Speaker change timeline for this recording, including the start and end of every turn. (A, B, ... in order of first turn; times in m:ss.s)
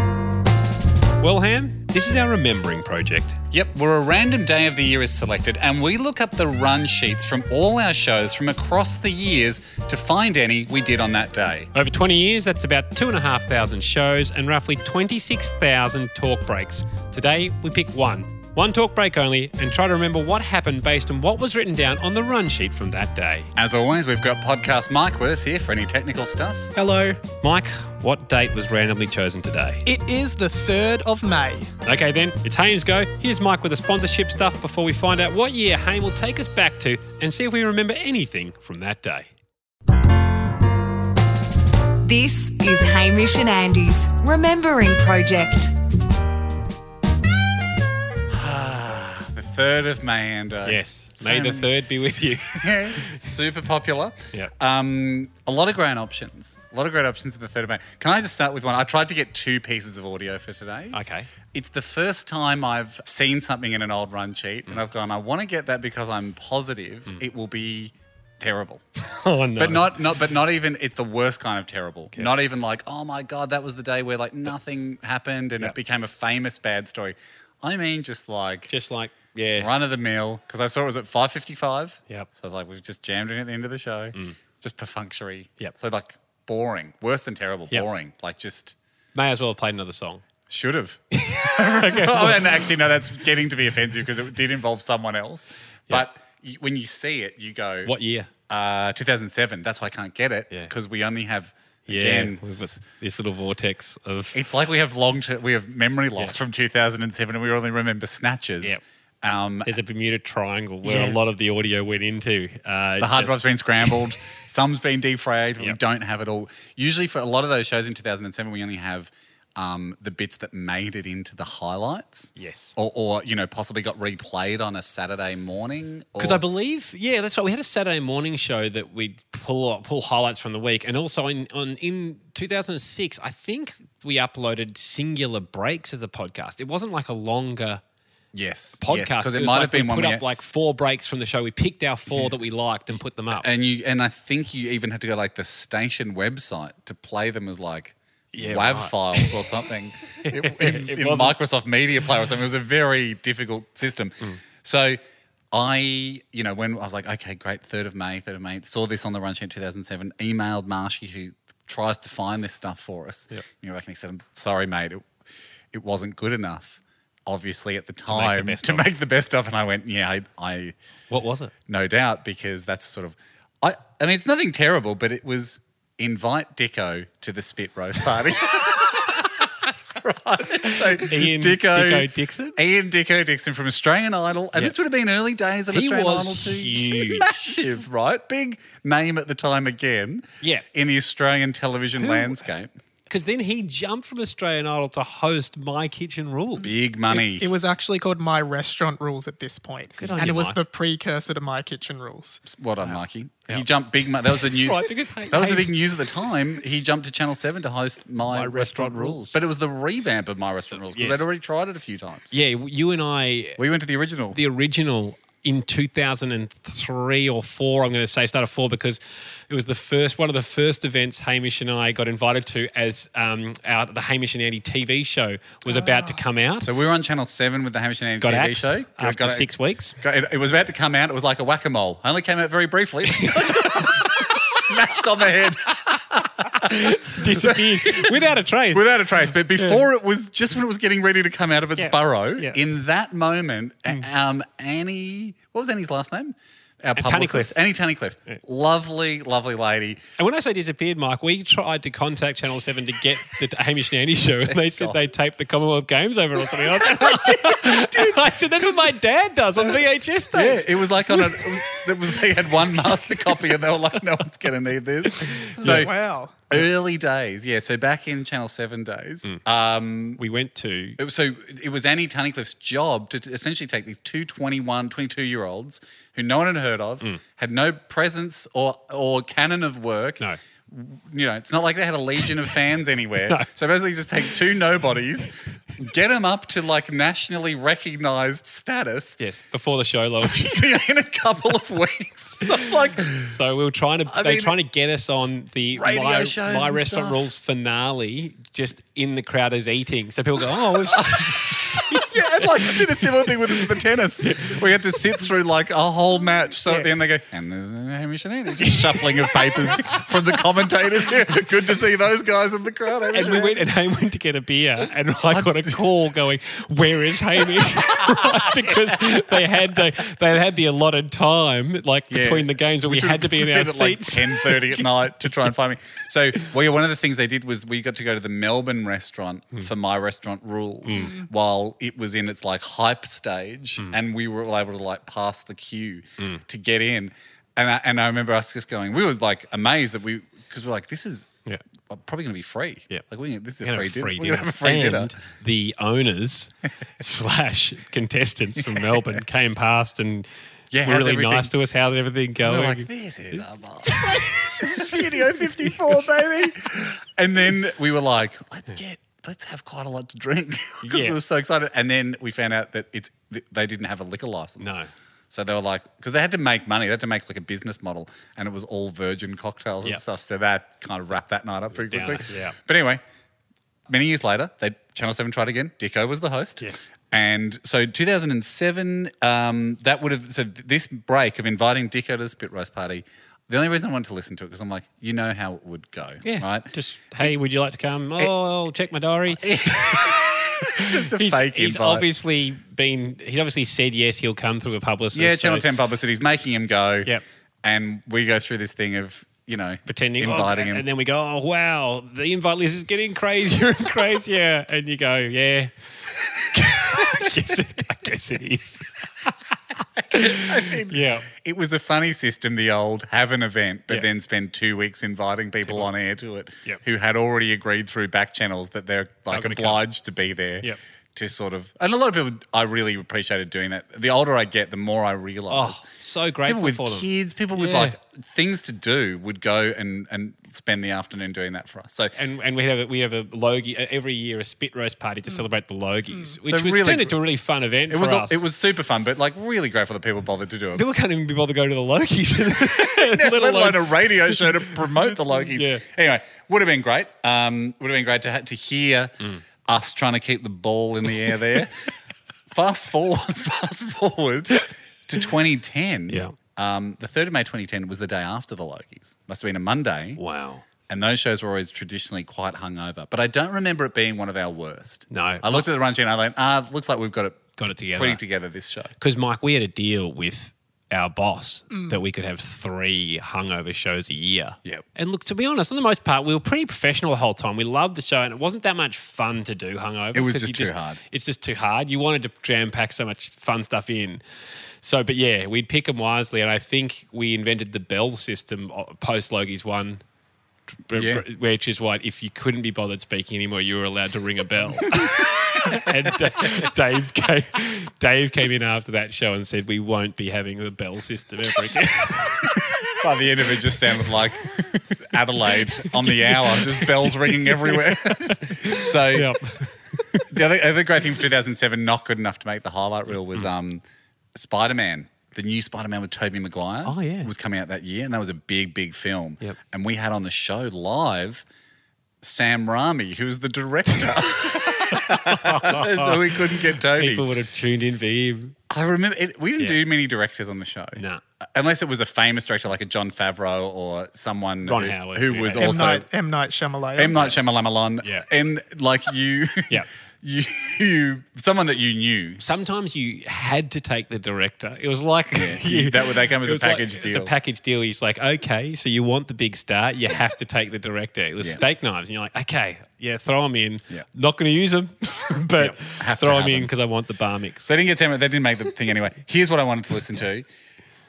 0:01.2-0:03.4 A
0:03.5-0:11.7 B
0:11.7-0:23.5 A
0:23.6-0:26.7 B
0:26.8-0:27.2 C
0:27.4-0:29.9 A
0:29.8-0:31.7 C
0:31.8-0:39.3 A
0:42.0-0:45.7 D
0:48.3-0:51.7 B
0:50.6-0:53.2 A
0:52.5-1:01.0 B
1:00.9-1:01.3 A
1:01.5-1:08.8 B
1:09.0-1:09.9 A
1:09.6-1:18.7 B
1:18.7-1:19.7 A
1:19.6-1:28.7 B
1:29.1-1:30.2 A
1:30.5-1:37.9 B
1:31.1-1:32.7 A
1:37.8-1:38.3 A
1:38.5-1:42.8 B
1:41.9-1:44.4 A
1:44.3-1:49.7 B
1:49.6-1:54.0 A
1:50.8-1:51.2 B
1:53.0-2:06.4 B
2:02.4-2:02.7 A
2:06.2-2:17.8 A
2:18.3-2:20.2 B
2:18.8-2:23.5 A
2:22.1-2:22.3 B
2:23.4-2:35.0 B
2:28.3-2:29.4 A
2:30.2-2:31.4 A
2:35.5-2:45.0 B
2:45.7-2:50.7 B
2:48.1-2:48.9 A
2:51.1-2:51.5 A
2:51.7-2:59.5 B
3:00.0-3:12.7 B
3:00.7-3:02.6 A
3:05.7-3:07.4 A
3:13.1-3:16.7 A
3:16.6-3:17.5 B
3:17.1-3:22.4 C
3:20.0-3:20.6 A
3:22.4-3:24.8 B
3:22.8-3:23.6 A
3:24.3-3:25.7 A
3:25.3-3:32.3 B
3:28.3-3:29.4 A
3:30.8-3:31.2 A
3:32.3-3:33.6 A
3:33.6-3:34.4 B
3:34.3-3:46.7 A
3:45.7-3:46.1 B
3:46.6-3:58.1 B
3:48.2-3:50.0 A
3:53.1-3:54.0 A
3:56.5-3:58.9 A
3:58.7-4:10.0 B
3:59.6-3:59.8 A
4:01.8-4:02.6 A
4:07.0-4:07.6 A
4:10.2-4:21.4 A
4:14.5-4:15.0 B
4:16.4-4:18.8 B
4:20.3-4:25.9 B
4:22.8-4:23.3 A
4:25.1-4:25.9 A
4:25.6-4:26.4 C
4:26.5-4:30.2 B
4:30.2-4:31.0 A
4:31.0-4:49.2 B
4:49.2-4:50.6 A
4:50.2-4:53.4 B
4:53.2-5:04.5 A
4:54.1-4:54.6 B
4:55.7-4:57.2 B
5:00.9-5:13.6 B
5:13.1-5:24.9 A
5:15.3-5:15.8 B
5:17.1-5:17.6 B
5:22.1-5:41.3 B
5:30.8-5:31.2 A
5:41.9-5:45.1 B
5:43.6-5:50.3 A
5:48.6-5:49.0 B
5:50.7-5:51.5 B
5:50.8-5:55.4 A
5:52.4-6:04.8 B
6:00.8-6:01.2 A
6:04.6-6:04.9 A
6:05.3-6:13.0 B
6:11.7-6:12.6 A
6:13.9-6:27.3 B
6:26.2-6:35.7 A
6:29.3-6:32.1 B
6:35.1-6:37.1 B
6:37.6-6:40.8 B
6:39.8-6:45.7 A
6:46.5-6:49.3 A
6:50.1-6:51.2 A
6:50.2-7:05.9 B
6:59.3-6:59.8 A
7:05.5-7:07.9 A
7:06.4-7:12.1 B
7:12.2-7:18.4 A
7:16.4-7:17.2 B
7:17.9-7:20.8 B
7:20.7-7:25.8 A
7:22.8-7:29.1 B
7:29.6-7:31.7 B
7:32.5-7:40.2 B
7:36.1-7:36.3 A
7:40.2-7:40.6 A
7:40.9-7:47.4 B
7:45.1-7:45.7 A
7:47.6-7:48.2 A
7:48.0-7:48.9 B
7:49.0-8:04.2 A
8:00.1-8:01.0 B
8:04.8-8:10.0 A
8:10.9-8:22.6 A
8:11.0-8:11.2 B
8:22.5-8:29.3 B
8:26.1-8:30.2 A
8:30.3-8:33.8 B
8:34.3-8:41.4 B
8:36.8-8:37.3 A
8:42.2-8:47.4 B
8:44.9-8:46.1 A
8:46.9-8:48.5 A
8:48.7-8:51.0 B
8:51.0-8:51.2 A
8:51.5-8:56.1 B
8:54.6-8:55.8 A
8:55.5-8:57.2 C
8:57.0-9:02.4 B
9:02.4-9:17.7 A
9:05.3-9:07.3 B
9:15.6-9:16.7 B
9:17.6-9:20.4 B